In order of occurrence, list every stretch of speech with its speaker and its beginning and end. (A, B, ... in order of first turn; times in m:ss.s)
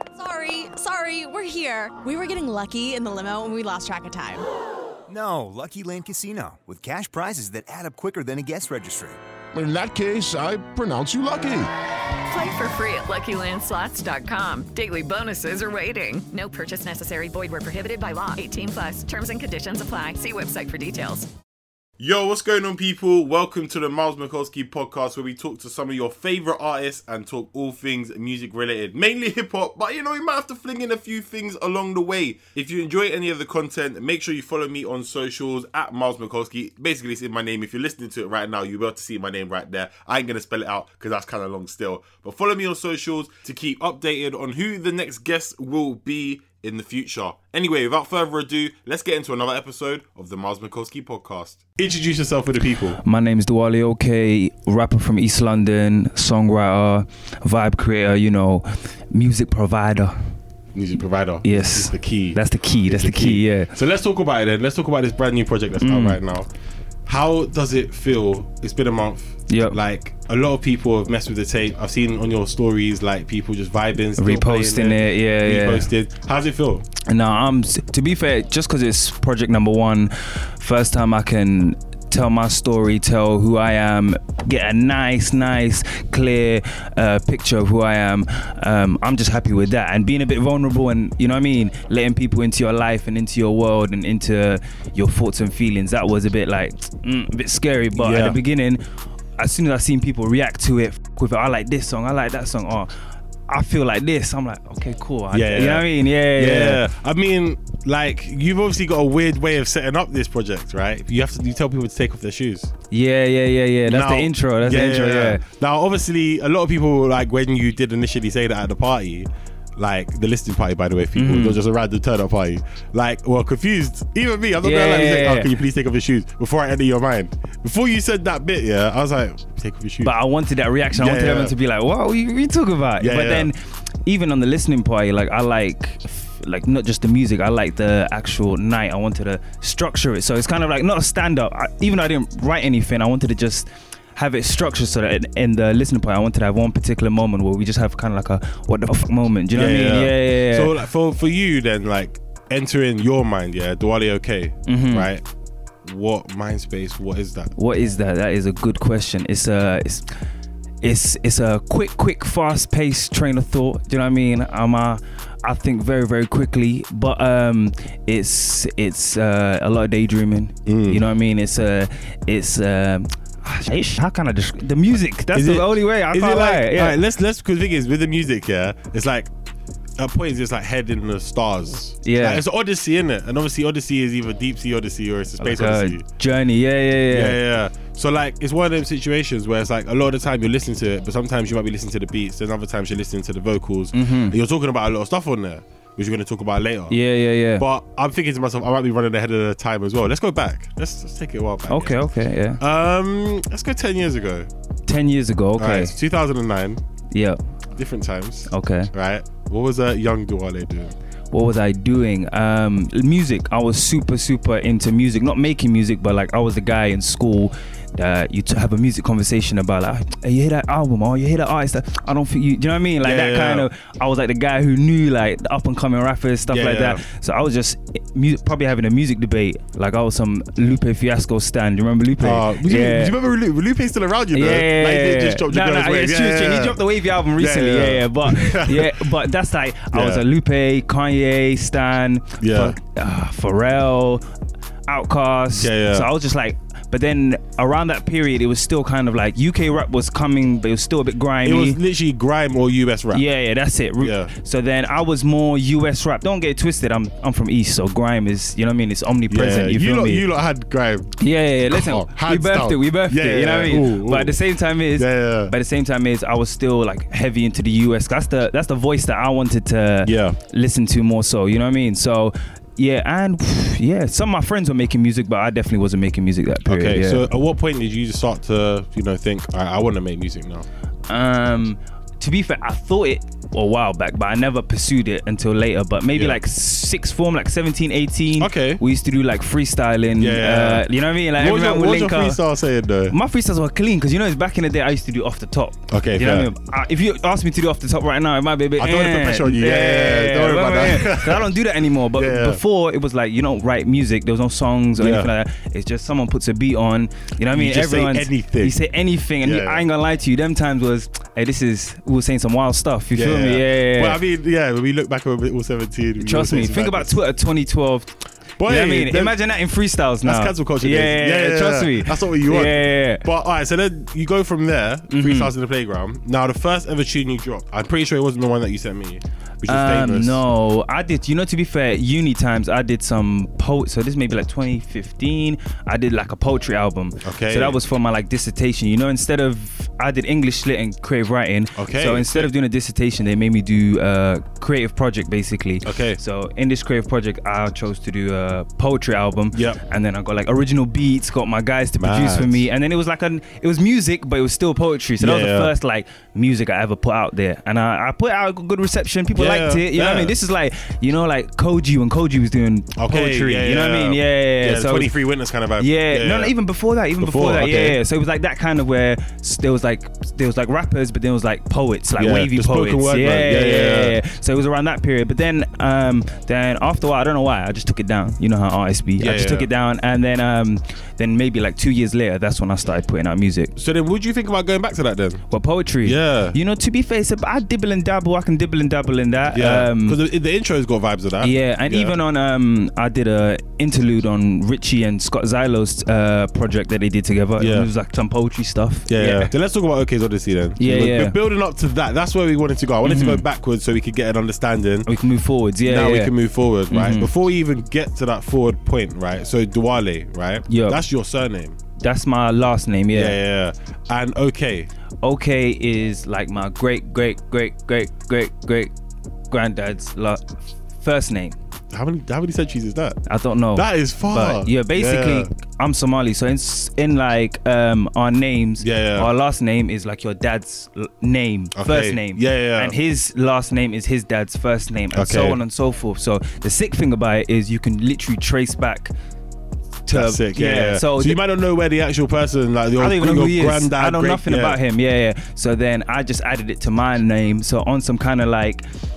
0:00.2-0:04.4 A
0:05.1-0:09.2 B
0:09.5-0:11.7 C
0:12.3-0:21.3 D
0:22.0-0:53.0 E
0:53.0-1:00.1 F
1:00.7-1:06.5 E
1:01.4-1:03.7 F
1:05.8-1:06.2 F
1:07.1-1:16.8 E
1:09.5-1:09.8 F
1:14.2-1:15.9 F
1:17.1-1:38.8 F
1:38.0-1:38.4 E
1:39.4-1:42.9 F
1:43.5-1:46.8 F
1:45.3-1:52.7 E
1:52.9-1:55.4 F
1:53.9-2:10.2 E
2:01.2-2:01.6 F
2:04.6-2:05.5 F
2:10.0-2:30.8 F
2:10.9-2:11.5 E
2:13.0-2:13.5 E
2:29.5-2:35.2 E
2:34.7-2:35.1 F
2:35.8-2:37.5 E
2:37.6-2:40.0 F
2:40.8-2:57.0 F
2:50.7-2:51.0 E
2:55.3-2:59.3 E
3:00.0-3:06.0 E
3:02.0-3:02.4 F
3:05.4-3:07.4 F
3:07.1-3:17.0 E
3:13.9-3:14.4 F
3:16.9-3:17.6 F
3:17.6-3:22.0 E
3:21.7-3:22.6 F
3:22.6-3:24.5 E
3:24.8-3:25.9 F
3:25.6-3:26.8 E
3:27.1-3:27.4 F
3:27.8-3:30.9 E
3:28.5-3:28.9 F
3:31.3-3:53.1 F
3:43.0-3:43.7 E
3:46.5-3:47.0 E
3:52.2-3:56.8 E
3:54.3-4:04.2 F
3:57.4-3:59.1 E
3:59.9-4:00.2 E
4:02.4-4:02.8 E
4:04.9-4:11.8 F
4:05.5-4:06.1 E
4:11.4-4:13.2 E
4:13.1-4:20.2 F
4:14.0-4:14.3 E
4:19.3-4:24.4 E
4:21.2-4:37.2 F
4:24.9-4:25.5 E
4:30.0-4:30.4 E
4:36.6-4:40.7 E
4:41.1-4:52.4 F
4:48.4-4:48.8 E
4:50.2-4:53.2 E
4:53.1-5:14.2 F
4:55.9-4:56.5 E
4:58.8-5:01.5 E
5:02.1-5:02.6 E
5:05.0-5:05.3 E
5:07.5-5:08.8 E
5:09.4-5:09.8 E
5:13.1-5:17.1 E
5:16.2-5:23.2 F
5:18.6-5:19.4 E
5:20.2-5:30.4 E
5:25.1-5:25.5 F
5:29.6-6:05.1 F
5:37.2-5:37.8 E
5:41.8-5:42.5 E
5:45.8-5:46.2 E
5:49.5-5:49.8 E
5:52.0-5:52.6 E
5:55.2-5:55.7 E
5:59.3-6:00.3 E
6:03.0-6:06.5 E
6:05.8-6:23.7 F
6:07.2-6:08.0 E
6:12.2-6:14.2 E
6:19.2-6:19.7 E
6:23.8-6:25.4 E
6:25.5-6:30.2 F
6:26.0-6:26.6 E
6:29.5-6:32.2 E
6:31.4-6:39.5 F
6:37.6-6:37.9 E
6:39.1-6:45.1 E
6:40.8-6:41.4 F
6:43.0-6:43.4 F
6:45.0-6:46.3 F
6:45.8-6:51.8 E
6:46.9-6:47.3 F
6:50.7-6:51.0 F
6:52.0-6:53.4 F
6:53.1-6:54.9 E
6:55.2-6:58.9 F
6:59.5-7:01.6 F
7:01.9-7:03.2 E
7:03.3-7:19.1 F
7:03.7-7:05.5 E
7:08.8-7:09.3 E
7:11.7-7:13.0 E
7:15.1-7:15.6 E
7:20.0-7:21.4 F
7:20.1-7:24.8 E
7:23.0-7:28.8 F